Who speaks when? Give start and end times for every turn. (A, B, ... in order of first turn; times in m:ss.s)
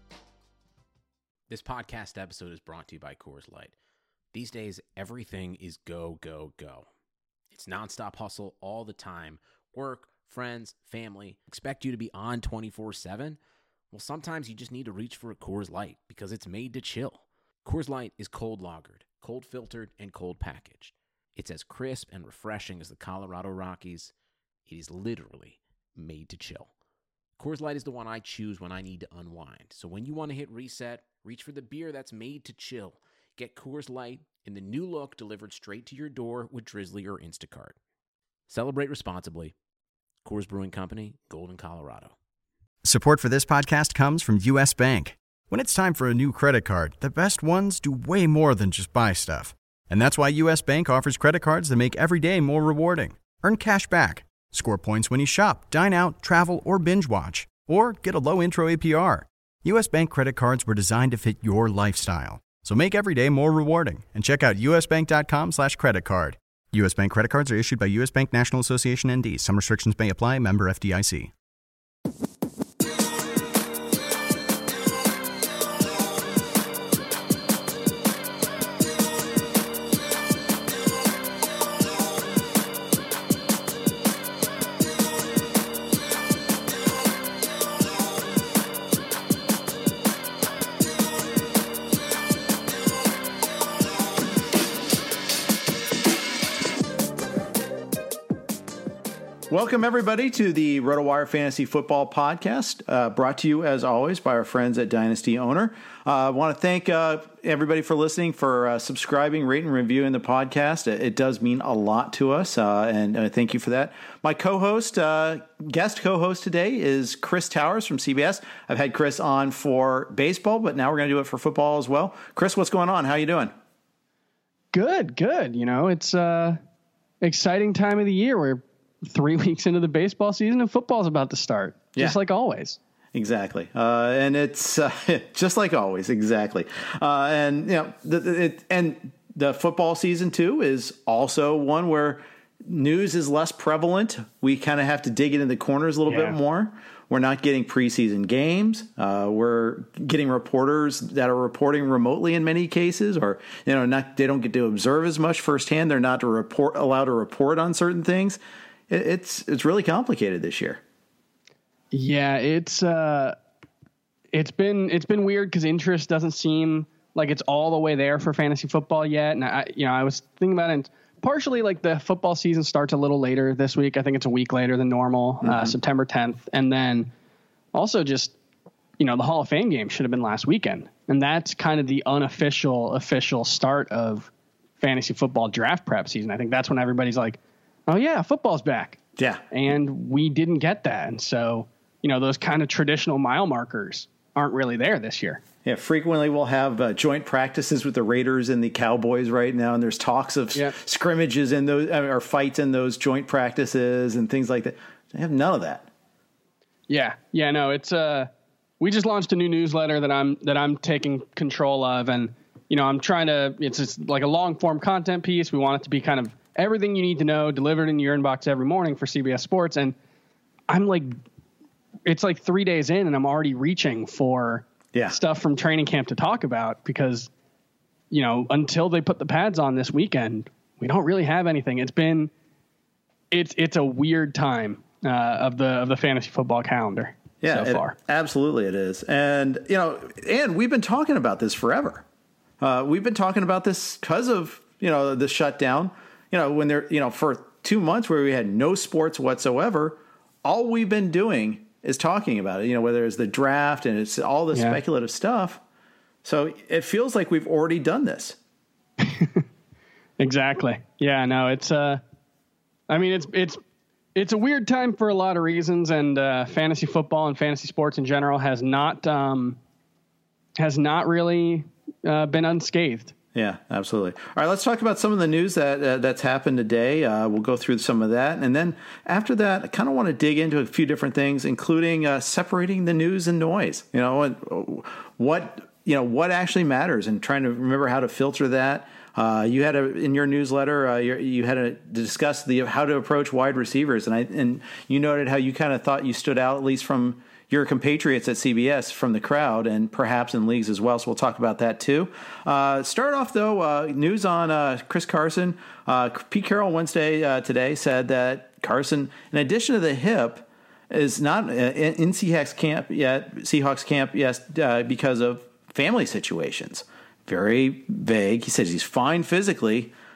0:01.5-0:03.7 A
0:04.3-0:06.9 A
0:07.5-0:13.4 A
0:13.9-0:24.1 A
0:24.6-0:26.7 A
0:27.4-0:37.8 A
0:38.5-0:39.5 A
0:40.2-0:42.1 A
0:42.8-1:11.3 B
1:39.5-2:03.5 C
2:04.7-2:06.6 D
2:07.2-2:12.8 D
2:13.1-2:40.8 C
2:26.1-2:26.4 D
2:41.9-2:43.4 D
2:44.3-2:57.1 D
2:55.4-2:55.7 C
2:57.7-2:58.4 D
2:59.0-3:09.0 D
3:09.2-3:09.4 C
3:09.5-3:15.4 D
3:15.6-3:25.9 C
3:26.9-3:39.9 D
3:40.7-3:41.1 D
3:42.0-3:47.3 D
3:48.1-3:52.3 D
3:53.3-3:58.0 D
3:57.4-4:02.0 C
4:02.6-4:15.6 C
4:14.5-4:14.8 D
4:16.2-4:18.4 C
4:19.0-4:19.4 D
4:20.2-4:22.0 D
4:22.9-4:23.6 D
4:24.1-4:29.6 D
4:30.6-4:33.1 D
4:33.3-5:19.9 C